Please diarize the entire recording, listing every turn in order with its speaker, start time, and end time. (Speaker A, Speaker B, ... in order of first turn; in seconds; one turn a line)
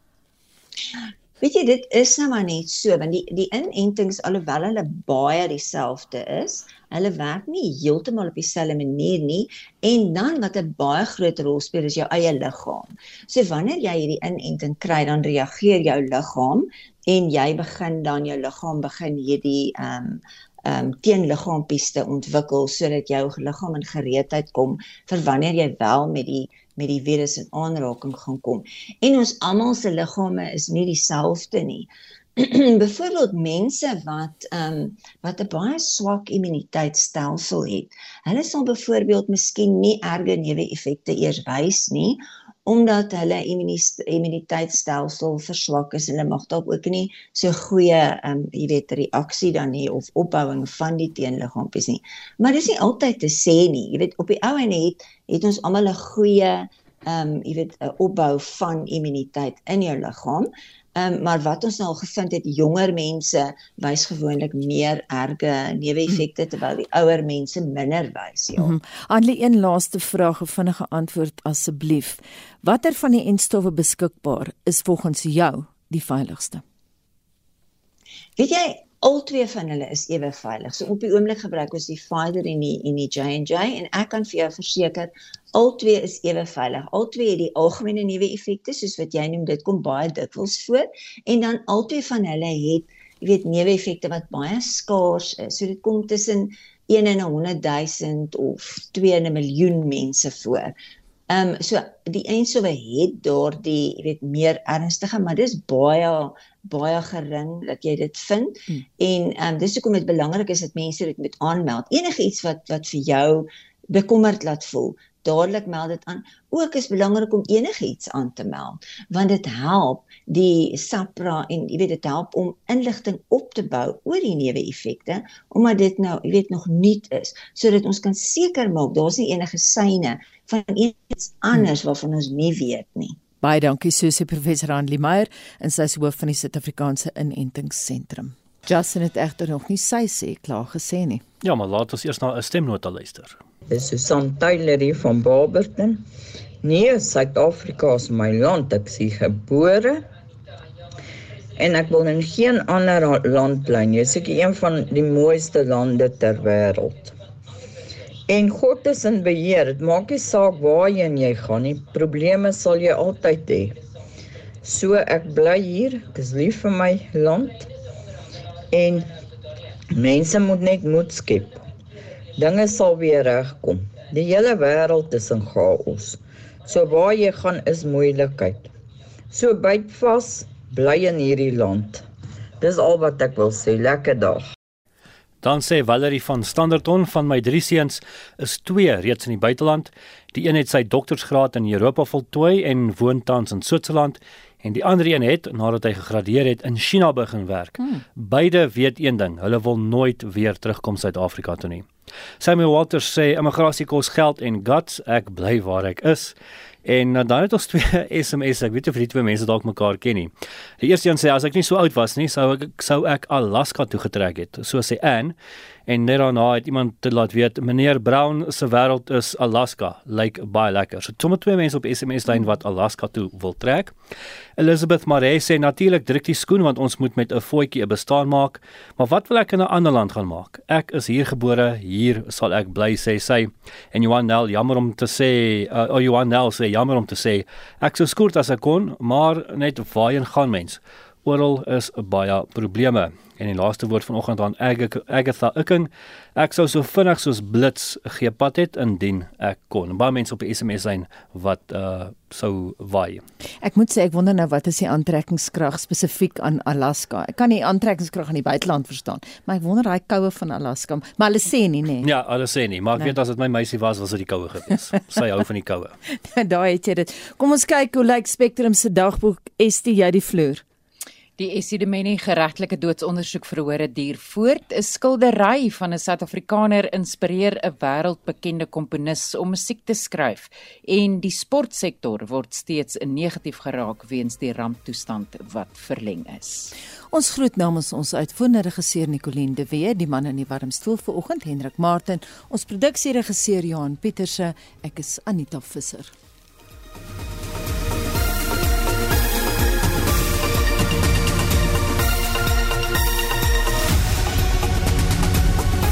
Speaker A: 1.4-68.7
Speaker B: 68.6-76.6
Speaker A: 78.4-100.7
Speaker A: 101.3-133.2
Speaker B: 133.4-141.2
Speaker C: 141.4-143.4
Speaker D: 143.7-146.0
Speaker D: 146.6-150.0
Speaker D: 151.6-157.1
Speaker D: 158.3-163.8
Speaker D: 164.6-167.7
Speaker D: 168.7-169.1
Speaker D: 169.9-171.6
Speaker D: 172.4-178.7
Speaker D: 179.3-182.0
Speaker D: 182.6-184.4
Speaker C: 185.4-201.9
Speaker C: 202.4-215.3
Speaker C: 215.9-223.9
Speaker C: 224.6-253.2
Speaker B: 253.6-262.1
Speaker C: 262.0-265.9
Speaker B: 266.2-270.6
Speaker E: 271.4-286.7
Speaker B: 287.1-296.1